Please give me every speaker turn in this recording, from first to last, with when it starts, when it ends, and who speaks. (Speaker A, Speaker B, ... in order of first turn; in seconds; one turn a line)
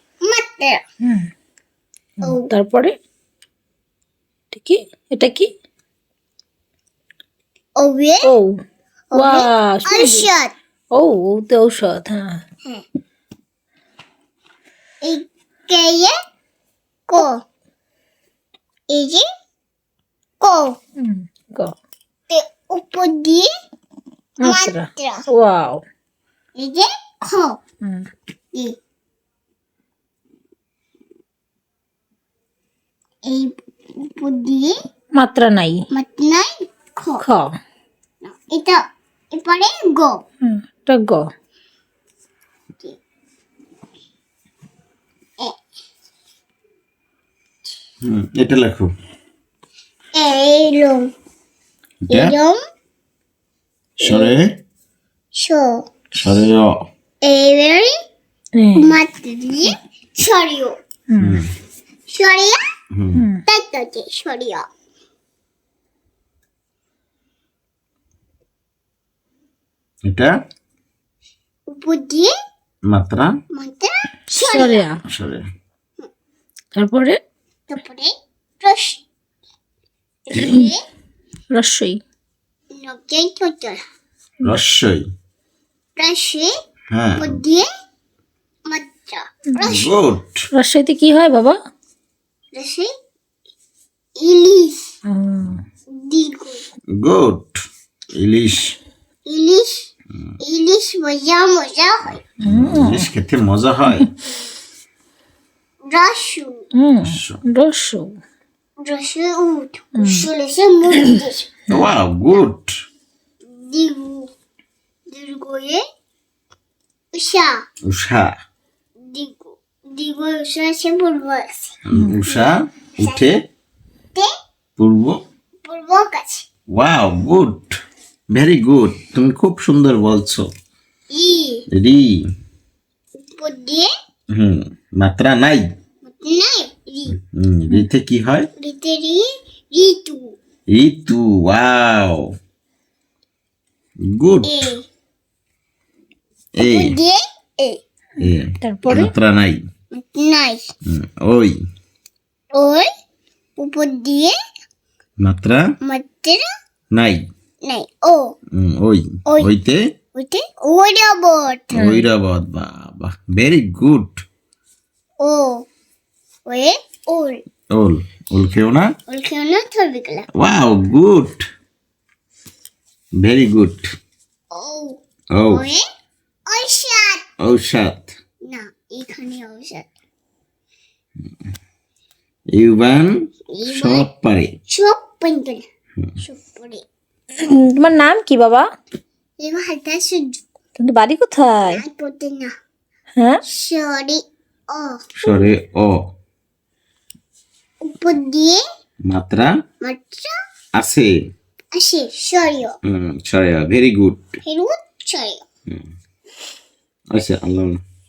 Speaker A: 0.2-0.8
Speaker B: 1.0-1.3
Speaker B: 2.2-3.0
Speaker A: 2.2-2.5
Speaker B: 4.5-5.5
Speaker A: 7.8-8.3
Speaker B: 8.2-8.6
Speaker A: 9.1-10.5
Speaker B: 9.1-10.3
Speaker B: 10.9-12.4
Speaker A: 15.0-16.1
Speaker A: 17.1-17.4
Speaker A: 18.9-19.2
Speaker A: 20.4-20.8
Speaker B: 21.0-21.7
Speaker A: 22.3-23.5
Speaker B: 24.4-25.8
Speaker A: 24.4-25.3
Speaker A: 26.5-27.6
Speaker B: 27.8-28.1
Speaker A: 33.2-34.7
Speaker B: 35.1-35.9
Speaker A: 35.9-37.2
Speaker B: 37.2-37.5
Speaker A: 38.2-38.8
Speaker A: 39.3-40.2
Speaker B: 40.4-41.3
Speaker C: 48.0-48.9
Speaker A: 50.1-51.1
Speaker C: 52.1-52.3
Speaker A: 52.1-52.6
Speaker A: 54.0-54.3
Speaker C: 54.0-54.6
Speaker A: 55.3-55.9
Speaker C: 56.1-56.8
Speaker A: 57.2-57.9
Speaker B: 58.5-59.0
Speaker A: 58.7-60.8
Speaker B: 61.1-61.4
Speaker C: 61.2-61.5
Speaker A: 62.1-62.6
Speaker C: 62.9-63.2
Speaker B: 63.1-63.4
Speaker A: 63.5-64.7
Speaker C: 70.0-70.3
Speaker A: 71.7-72.3
Speaker C: 72.9-73.3
Speaker A: 73.5-74.8
Speaker B: 74.3-75.0
Speaker C: 75.1-75.4
Speaker B: 76.7-77.2
Speaker A: 77.7-79.0
Speaker A: 80.3-80.8
Speaker B: 80.3-80.7
Speaker B: 81.5-82.0
Speaker A: 82.7-83.8
Speaker C: 84.4-85.0
Speaker A: 86.0-86.5
Speaker C: 86.9-87.4
Speaker A: 87.2-87.7
Speaker A: 88.7-89.9
Speaker C: 89.6-90.5
Speaker B: 90.5-91.6
Speaker A: 92.5-92.9
Speaker A: 94.2-94.9
Speaker B: 95.0-95.6
Speaker A: 95.9-96.6
Speaker C: 96.9-97.6
Speaker C: 98.1-98.8
Speaker A: 99.2-99.9
Speaker A: 100.4-102.2
Speaker B: 102.4-103.0
Speaker C: 102.4-104.1
Speaker A: 105.9-106.6
Speaker B: 106.7-108.1
Speaker C: 107.0-107.4
Speaker A: 108.8-111.5
Speaker B: 110.0-110.3
Speaker C: 111.7-112.7
Speaker A: 113.4-114.3
Speaker A: 115.1-115.8
Speaker A: 117.1-117.6
Speaker C: 117.8-118.3
Speaker A: 119.0-123.3
Speaker C: 121.8-123.5
Speaker C: 124.8-125.2
Speaker A: 125.6-126.5
Speaker C: 126.7-127.8
Speaker C: 128.3-130.5
Speaker A: 131.1-131.7
Speaker C: 131.7-132.3
Speaker A: 133.2-133.9
Speaker C: 134.3-135.7
Speaker A: 136.0-137.2
Speaker C: 137.1-138.5
Speaker A: 138.6-140.3
Speaker C: 140.7-142.3
Speaker C: 144.0-144.7
Speaker A: 144.4-144.8
Speaker C: 146.6-147.0
Speaker A: 146.6-147.8
Speaker B: 148.2-149.1
Speaker C: 148.2-149.6
Speaker A: 149.9-150.7
Speaker C: 150.8-151.6
Speaker A: 152.5-152.9
Speaker A: 153.6-154.3
Speaker C: 155.2-155.7
Speaker A: 155.8-156.4
Speaker C: 156.9-157.3
Speaker A: 157.6-158.3
Speaker C: 158.5-159.8
Speaker A: 159.2-159.5
Speaker A: 160.1-161.8
Speaker C: 161.7-164.2
Speaker B: 161.8-162.1
Speaker A: 165.2-165.7
Speaker A: 166.4-167.4
Speaker C: 167.7-168.9
Speaker A: 169.1-170.3
Speaker C: 170.3-171.4
Speaker C: 173.2-173.9
Speaker A: 174.5-175.8
Speaker C: 175.3-175.7
Speaker A: 176.5-177.2
Speaker C: 177.4-178.1
Speaker A: 178.5-179.9
Speaker C: 182.5-184.5
Speaker A: 183.5-184.1
Speaker A: 184.7-185.6
Speaker A: 186.2-186.8
Speaker B: 187.4-188.7
Speaker A: 189.4-190.4
Speaker B: 190.8-191.8
Speaker A: 191.7-192.5
Speaker B: 193.2-193.4
Speaker A: 193.4-195.4
Speaker C: 195.2-196.1
Speaker A: 197.8-198.6
Speaker C: 199.1-199.5
Speaker A: 199.8-200.3
Speaker C: 200.8-201.2
Speaker A: 201.7-202.8
Speaker C: 202.8-204.4
Speaker A: 204.4-205.4
Speaker C: 207.1-207.8